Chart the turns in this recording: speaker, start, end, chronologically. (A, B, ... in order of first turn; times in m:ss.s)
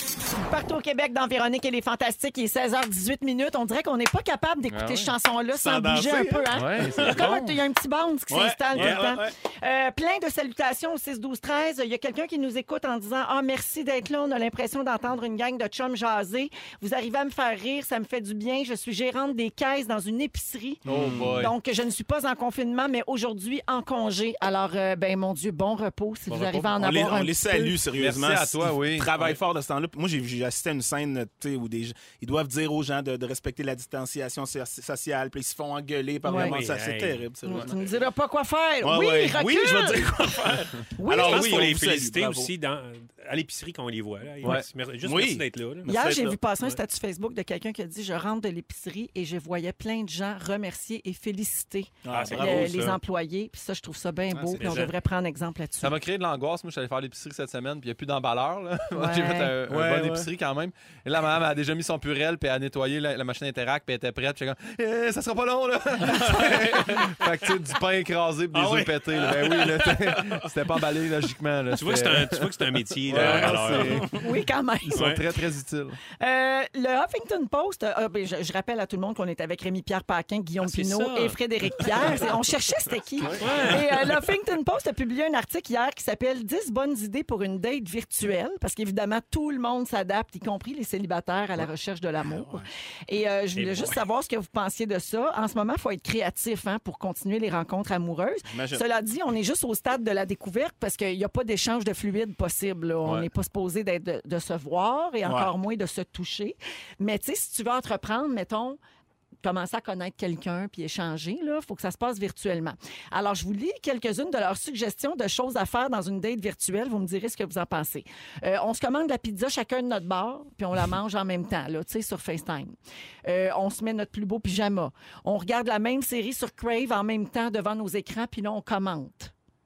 0:00.3-0:20.8 A
0:04.7-0:05.1 B
0:05.6-0:07.3 C
0:06.5-0:07.6 B
0:08.3-0:09.3 C
0:08.8-0:09.0 D
0:20.8-0:21.5 C
0:20.9-0:21.5 B
0:21.4-0:27.8 A
0:26.3-0:37.8 C
0:28.0-0:29.4 B
0:36.2-0:36.6 A
0:36.3-0:37.2 D
0:37.4-0:41.8 A
0:38.8-0:42.5 C
0:41.2-0:46.7 D
0:44.4-0:46.3 C
0:45.9-0:55.9 A
0:52.0-0:52.9 C
0:52.1-0:53.0 D
0:54.3-0:54.8 C
0:54.6-0:54.9 D
0:55.8-1:14.1 B
0:58.9-0:59.5 A
0:59.7-1:00.3 C
1:06.2-1:06.6 C
1:08.6-1:08.9 D
1:11.7-1:14.2 D
1:13.2-1:14.1 C
1:14.1-1:15.2 A
1:14.9-1:16.0 B
1:14.9-1:15.2 D
1:16.2-1:48.8 A
1:20.6-1:22.3 D
1:23.4-1:23.8 D
1:32.2-1:32.7 C
1:33.6-1:34.0 D
1:38.5-1:38.8 C
1:45.2-1:45.5 C
1:49.4-2:09.3 A